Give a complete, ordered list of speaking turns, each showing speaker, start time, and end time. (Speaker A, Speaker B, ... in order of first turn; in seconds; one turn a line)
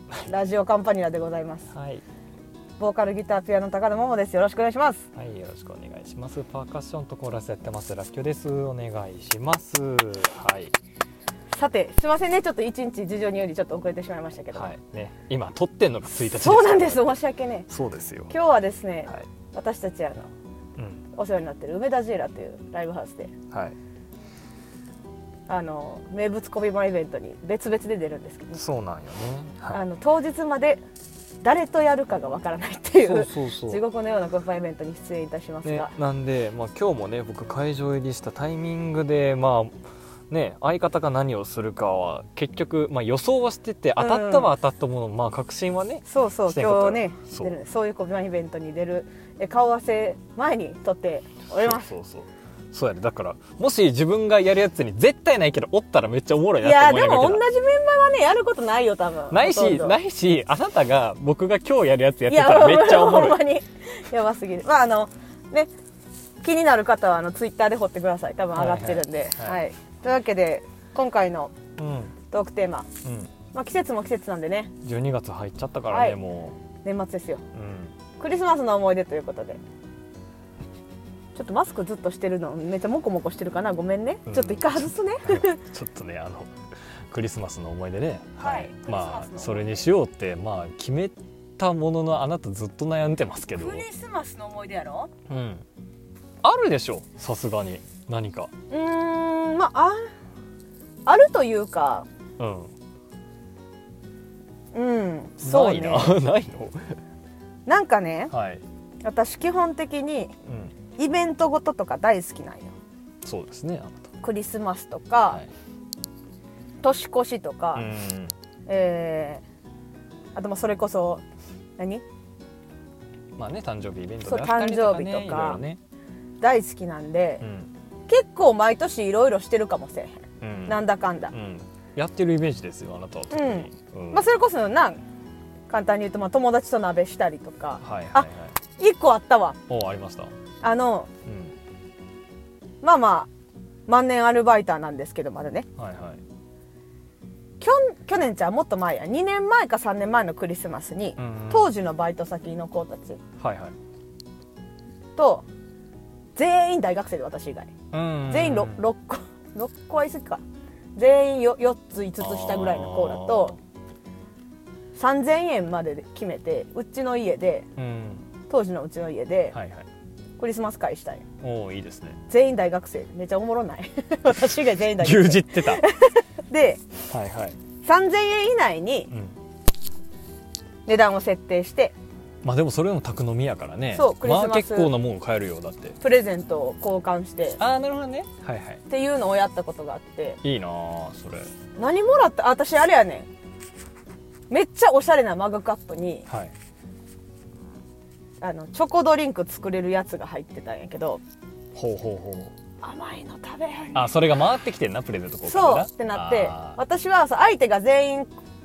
Speaker A: 0.2-1.7
Speaker B: 1.7-2.0
Speaker A: 2.8-5.0
Speaker B: 5.1-10.7
Speaker A: 11.5-14.7
Speaker B: 14.5-17.2
Speaker A: 16.3-17.7
Speaker B: 17.7-18.3
Speaker A: 18.3-20.3
Speaker B: 20.8-21.0
Speaker A: 21.1-23.3
Speaker A: 25.5-28.6
Speaker B: 28.6-29.8
Speaker A: 29.7-30.8
Speaker A: 31.4-35.9
Speaker B: 33.0-33.8
Speaker B: 35.6-39.7
Speaker B: 40.3-47.5
Speaker A: 44.0-44.5
Speaker A: 46.1-51.9
Speaker B: 51.6-57.4
Speaker A: 56.6-60.0
Speaker B: 59.3-63.4
Speaker A: 62.3-65.7
Speaker A: 66.4-71.6
Speaker B: 68.5-69.6
Speaker B: 71.8-72.1
Speaker A: 72.3-72.9
Speaker B: 73.0-73.3
Speaker A: 73.5-74.7
Speaker B: 74.8-76.6
Speaker A: 75.9-76.2
Speaker A: 76.8-77.4
Speaker B: 77.5-77.9
Speaker A: 78.2-79.6
Speaker A: 81.3-85.6
Speaker B: 84.2-86.5
Speaker B: 87.1-93.8
Speaker A: 88.4-89.8
Speaker A: 93.5-95.1
Speaker B: 95.3-95.6
Speaker B: 96.4-98.5
Speaker A: 98.7-100.0
Speaker A: 101.0-102.0
Speaker B: 102.4-102.7
Speaker A: 104.7-106.2
Speaker B: 105.4-107.0
Speaker A: 107.7-108.3
Speaker B: 108.3-108.6
Speaker A: 109.0-110.3
Speaker B: 110.5-110.7
Speaker A: 111.0-112.7
Speaker B: 113.2-114.1
Speaker A: 114.2-115.4
Speaker A: 116.8-117.8
Speaker B: 117.7-118.3
Speaker A: 118.7-119.4
Speaker A: 120.3-121.2
Speaker A: 121.8-122.0
Speaker B: 123.3-125.8
Speaker A: 124.2-125.6
Speaker A: 126.4-127.4
Speaker B: 127.4-127.7
Speaker A: 128.1-131.3
Speaker B: 130.4-134.3
Speaker A: 133.3-135.0
Speaker A: 135.7-139.6
Speaker B: 137.8-138.5
Speaker B: 139.7-140.3
Speaker A: 140.6-141.1
Speaker B: 141.2-141.5
Speaker A: 142.8-143.3
Speaker A: 143.9-145.7
Speaker B: 145.8-146.2
Speaker A: 147.6-153.2
Speaker B: 151.2-151.7
Speaker B: 153.4-153.7
Speaker A: 155.2-155.4
Speaker A: 156.3-157.7
Speaker B: 157.9-158.8
Speaker A: 158.3-160.4
Speaker A: 160.9-163.5
Speaker B: 162.2-163.6
Speaker A: 164.9-167.7
Speaker B: 167.8-168.2
Speaker A: 168.5-169.6
Speaker B: 169.5-169.8
Speaker A: 170.4-171.2
Speaker B: 171.4-172.2
Speaker A: 172.3-176.8
Speaker B: 175.0-175.8
Speaker B: 177.1-177.6
Speaker A: 177.8-179.1
Speaker B: 179.1-179.3
Speaker A: 180.9-181.9
Speaker B: 182.4-186.0
Speaker A: 183.9-184.9
Speaker A: 186.0-187.6
Speaker B: 187.6-188.8
Speaker A: 188.9-190.4
Speaker B: 190.4-191.5
Speaker A: 191.8-193.3
Speaker A: 194.5-196.3
Speaker B: 196.3-196.5
Speaker A: 198.4-201.2
Speaker B: 201.7-202.5
Speaker A: 202.8-204.2
Speaker B: 203.9-206.8
Speaker A: 205.4-208.3